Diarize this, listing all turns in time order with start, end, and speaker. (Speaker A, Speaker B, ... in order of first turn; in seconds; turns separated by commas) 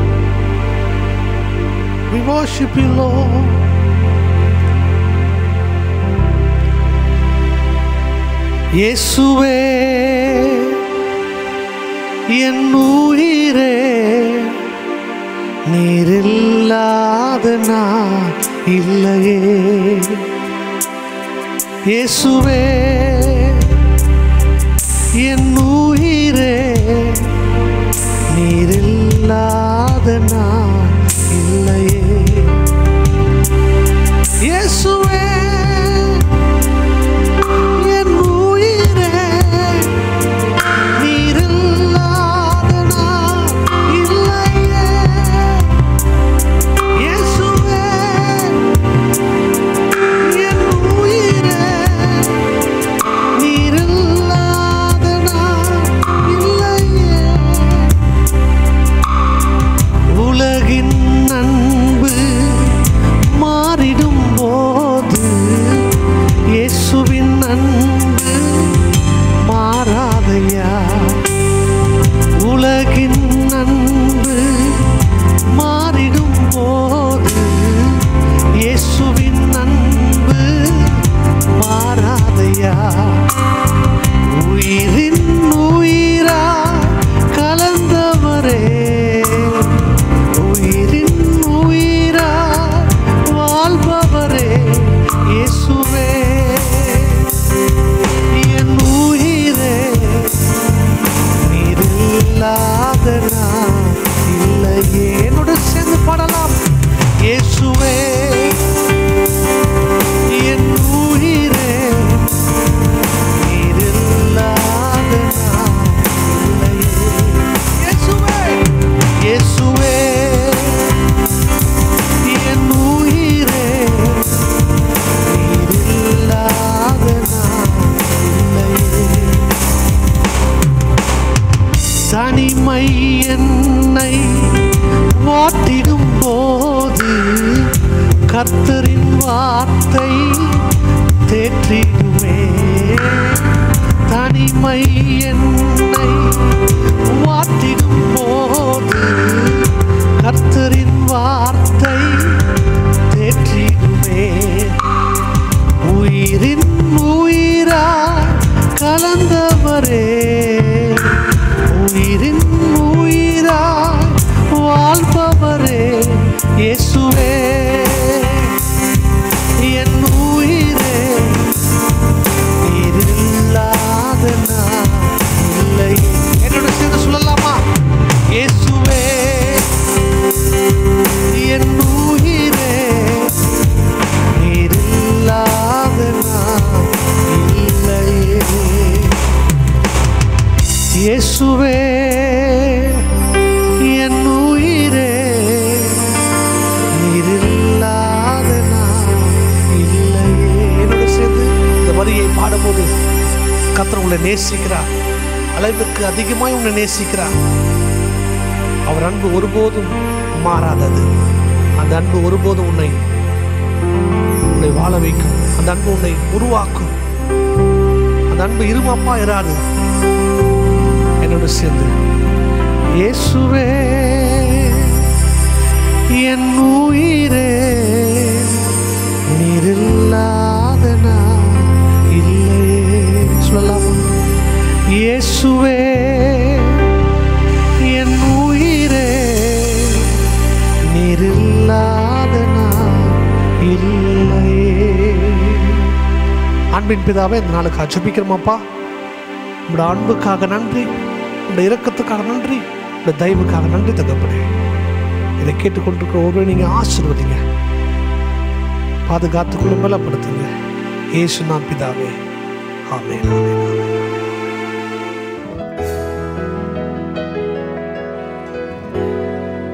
Speaker A: 2.1-3.6, Speaker A: 8.8-10.8, Speaker A: 12.3-14.7, Speaker A: 15.7-20.2, Speaker A: 21.9-23.8, Speaker A: 25.2-27.4, Speaker A: 28.3-32.6, Speaker A: 34.4-36.3, Speaker A: 37.8-40.0, Speaker A: 41.0-45.8, Speaker A: 47.0-48.7, Speaker A: 50.2-52.5, Speaker A: 53.4-58.1, Speaker A: 60.1-66.0, Speaker A: 66.5-71.2, Speaker A: 72.4-83.3, Speaker A: 84.3-97.3, Speaker A: 98.3-100.5, Speaker A: 101.4-106.6, Speaker A: 107.2-108.6, Speaker A: 110.3-112.3, Speaker A: 113.4-120.9, Speaker A: 122.3-124.5, Speaker A: 125.2-129.5, Speaker A: 132.0-154.8, Speaker A: 155.8-168.6, Speaker A: 169.6-171.5, Speaker A: 172.7-177.6, Speaker A: 178.3-179.7, Speaker A: 181.3-183.4, Speaker A: 184.3-189.2, Speaker A: 191.0-193.1, Speaker A: 193.9-196.1, Speaker A: 197.0-202.9, Speaker A: 203.7-204.9, Speaker A: 205.6-207.3, Speaker A: 208.9-211.1, Speaker A: 211.8-213.0, Speaker A: 214.5-216.9, Speaker A: 218.3-219.6, Speaker A: 221.2-221.9, Speaker A: 223.0-225.1, Speaker A: 226.1-228.7, Speaker A: 229.3-234.2, Speaker A: 234.9-237.0, Speaker A: 237.8-240.3, Speaker A: 240.9-245.9, Speaker A: 246.7-248.6, Speaker A: 249.7-250.9, Speaker A: 251.5-254.5, Speaker A: 255.4-257.4, Speaker A: 259.1-260.5, Speaker A: 261.1-262.2, Speaker A: 262.9-263.9